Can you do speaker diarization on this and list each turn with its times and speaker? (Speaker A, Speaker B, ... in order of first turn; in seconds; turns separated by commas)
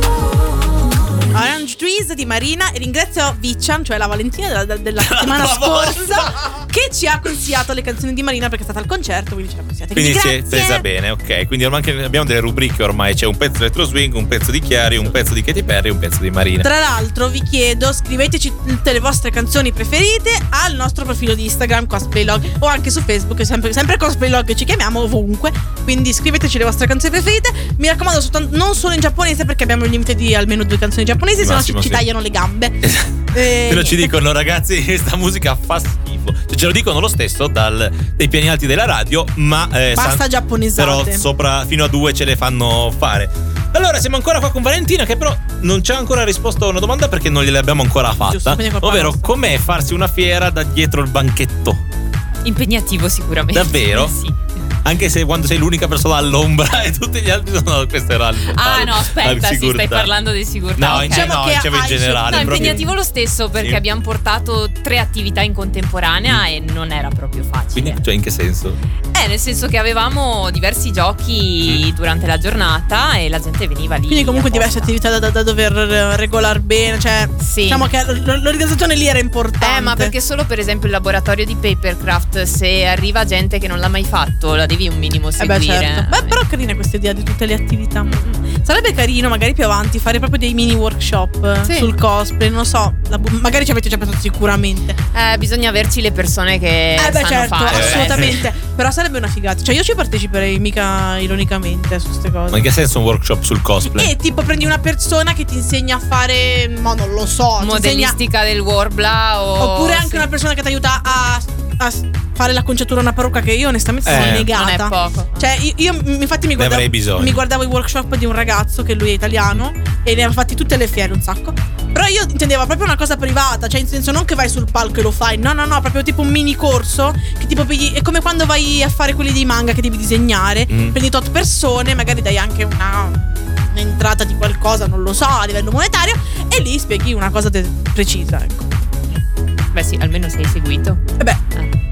Speaker A: 1.3-10.8, Speaker B: 5.0-6.5, Speaker B: 9.9-16.7, Speaker A: 16.6-34.1, Speaker B: 31.4-32.0, Speaker B: 32.8-51.8, Speaker A: 39.9-41.2, Speaker A: 48.2-49.3, Speaker C: 52.4-54.4, Speaker B: 53.5-54.1, Speaker B: 54.8-60.1, Speaker C: 58.5-61.3, Speaker B: 60.8-62.9, Speaker A: 60.9-62.9, Speaker C: 62.3-68.0, Speaker B: 63.6-63.8, Speaker B: 67.7-68.8, Speaker C: 69.1-74.9, Speaker A: 74.1-80.1, Speaker C: 77.4-77.8, Speaker C: 79.6-86.4, Speaker A: 85.4-95.0, Speaker C: 91.6-91.9, Speaker C: 95.1-98.4, Speaker A: 97.0-102.6, Speaker B: 97.7-98.4, Speaker B: 102.5-104.1, Speaker A: 103.9-108.2, Speaker C: 107.6-110.2, Speaker A: 109.6-133.2, Speaker B: 114.0-114.5, Speaker C: 114.1-115.4, Speaker B: 116.5-117.4, Speaker B: 130.7-131.0, Speaker A: 133.7-138.7, Speaker C: 139.7-141.0